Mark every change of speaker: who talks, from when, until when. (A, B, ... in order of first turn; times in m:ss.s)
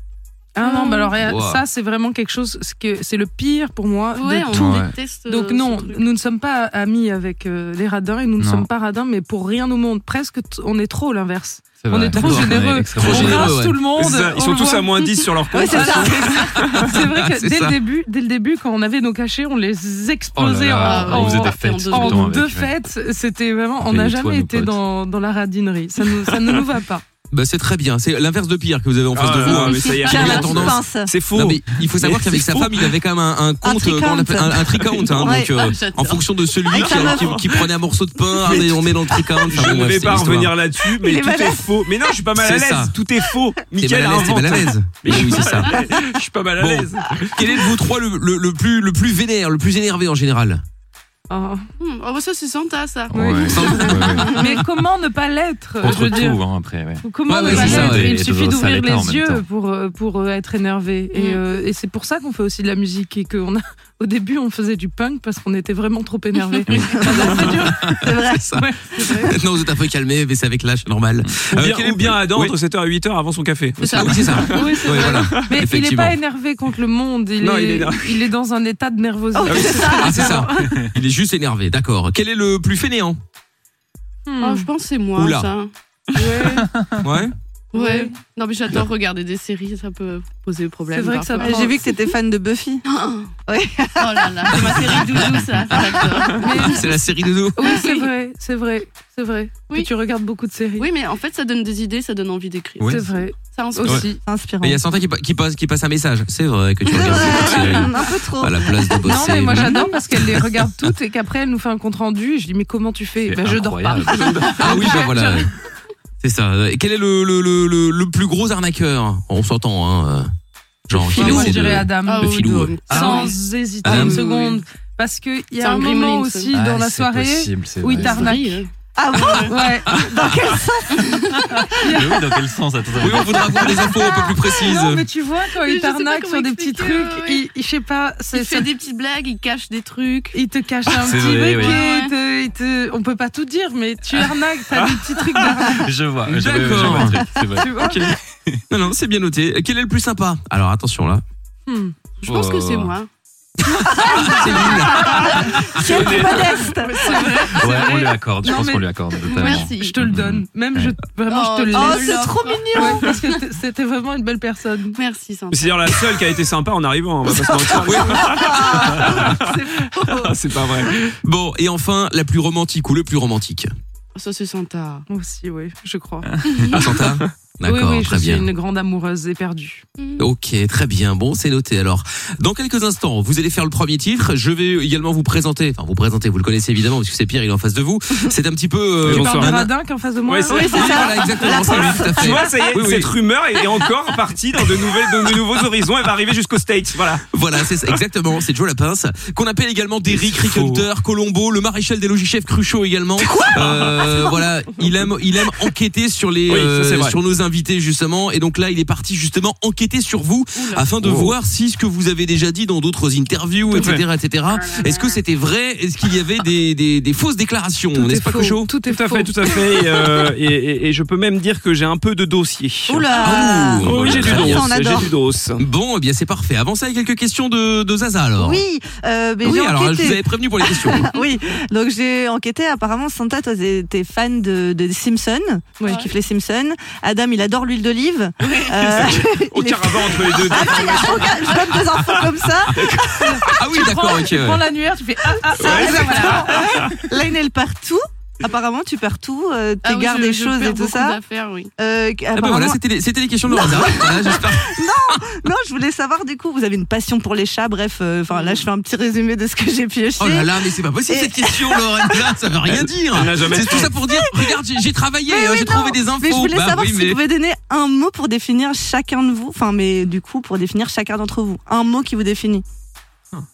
0:00.6-0:14.9 A
0:00.6-0:01.1 B
0:01.2-0:01.6 C
0:04.1-0:06.0 B
0:04.5-0:04.9 D
0:08.4-0:08.7 D
0:11.8-0:13.6 D
0:12.2-0:13.8 C
0:14.0-0:16.7 E
0:15.5-0:16.6 F
0:15.8-0:27.0 A
0:16.8-0:17.8 C
0:20.4-0:22.8 D
0:20.8-0:22.4 B
0:23.8-0:24.8 D
0:27.3-0:40.6 C
0:29.1-0:32.9 E
0:29.5-0:31.1 F
0:33.6-0:35.5 F
0:35.2-0:37.1 B
0:36.7-0:37.5 F
0:36.7-0:37.7 E
0:38.3-0:47.6 E
0:40.8-0:42.0 F
0:42.4-0:43.0 C
0:43.8-0:45.8 C
0:46.6-0:50.6 C
0:51.3-0:51.6 A
0:51.8-0:54.2 B
0:53.1-0:54.5 D
0:53.1-0:56.4 A
0:53.6-0:54.3 C
0:55.8-0:59.4 D
0:57.0-1:08.0 A
0:57.3-0:58.1 C
0:57.4-0:58.0 B
1:01.1-1:01.4 B
1:06.8-1:12.5 C
1:06.8-1:09.1 F
1:08.6-1:09.3 A
1:11.5-1:15.4 E
1:13.8-1:14.6 B
1:13.9-1:16.2 C
1:14.5-1:20.5 A
1:17.4-1:18.3 E
1:19.3-1:20.8 F
1:19.5-1:19.9 E
1:20.0-1:23.2 C
1:24.2-1:24.7 A
1:24.4-1:25.7 B
1:25.2-1:25.5 C
1:26.1-1:26.7 A
1:27.0-1:27.3 C
1:27.7-1:31.8 B
1:27.7-1:28.2 A
1:30.9-1:31.8 A
1:31.4-1:32.8 F
1:32.8-1:33.3 B
1:33.5-1:34.6 F
1:34.0-1:36.8 B
1:34.5-1:37.7 C
1:36.4-1:36.8 A
1:37.6-1:40.9 A
1:37.7-1:37.9 B
1:40.8-1:44.1 B
1:42.9-1:44.2 A
1:44.2-1:44.8 F
1:44.6-1:50.4 C
1:46.9-1:49.8 F
1:49.0-1:55.4 A
1:53.2-1:54.5 D
1:54.1-1:54.8 E
1:54.6-1:55.5 C
1:56.2-2:00.3 C
2:00.9-2:03.2 C
2:00.9-2:08.6 A
2:01.2-2:04.6 B
2:01.2-2:01.5 F
2:02.9-2:03.3 D
2:03.8-2:04.2 C
2:05.6-2:06.5 B
2:06.5-2:08.3 D
2:07.9-2:09.6 B
2:09.0-2:11.4 F
2:09.4-2:10.3 A
2:11.0-2:11.4 B
2:11.5-2:12.2 A
2:11.8-2:13.8 D
2:13.0-2:15.0 C
2:13.8-2:18.7 A
2:15.6-2:17.4 B
2:18.3-2:20.4 B
2:20.3-2:25.9 A
2:20.9-2:21.8 D
2:21.1-2:22.1 B
2:24.7-2:25.4 E
2:25.7-2:28.6 D
2:26.3-2:27.2 C
2:26.7-2:28.1 A
2:27.8-2:28.1 E
2:28.7-2:31.2 C
2:31.7-2:31.9 A
2:32.2-2:33.1 B
2:32.2-2:32.9 D
2:33.6-2:35.8 C
2:33.9-2:37.5 F
2:35.0-2:35.6 B
2:35.8-2:36.6 E
2:36.2-2:38.0 B
2:37.1-2:45.0 A
2:37.5-2:41.0 D
2:39.3-2:40.0 B
2:41.3-2:43.1 B
2:41.7-2:43.1 F
2:45.0-2:46.1 B
2:45.5-2:51.2 E
2:47.7-2:50.4 F
2:47.8-2:48.2 C
2:51.2-2:53.7 C
2:54.1-2:55.0 B
2:55.1-2:56.6 A
2:56.5-2:56.8 B
2:56.7-2:58.5 C
2:57.6-2:59.8 A
3:00.0-3:00.2 B
3:00.2-3:09.7 C
3:09.0-3:09.6 E
3:09.0-3:11.4 A
3:10.3-3:18.0 E
3:10.5-3:12.6 F
3:10.6-3:13.1 C
3:17.3-3:38.7 C
3:20.1-3:20.9 E
3:23.2-3:24.4 E
3:25.4-3:25.7 E
3:26.5-3:27.2 E
3:30.5-3:30.8 B
3:31.0-3:31.3 E
3:33.7-3:34.0 E
3:37.9-3:40.0 A
3:38.9-3:45.6 E
3:42.9-3:45.1 F
3:43.1-3:44.7 C
3:45.6-3:48.6 C
3:48.4-4:03.3 F
3:49.4-3:51.1 C
3:55.8-3:56.0 A
3:55.8-3:56.1 B
3:58.4-3:59.1 B
3:58.8-4:03.3 E
4:03.2-4:06.9 A
4:03.5-4:04.7 C
4:05.5-4:11.2 F
4:05.6-4:06.9 E
4:05.8-4:06.4 B
4:09.8-4:11.7 B
4:11.8-4:12.8 F
4:12.3-4:15.2 C
4:13.5-4:22.3 F
4:18.3-4:18.6 B
4:20.2-4:27.2 C
4:22.6-4:24.0 E
4:23.8-4:24.6 F
4:25.3-4:32.6 F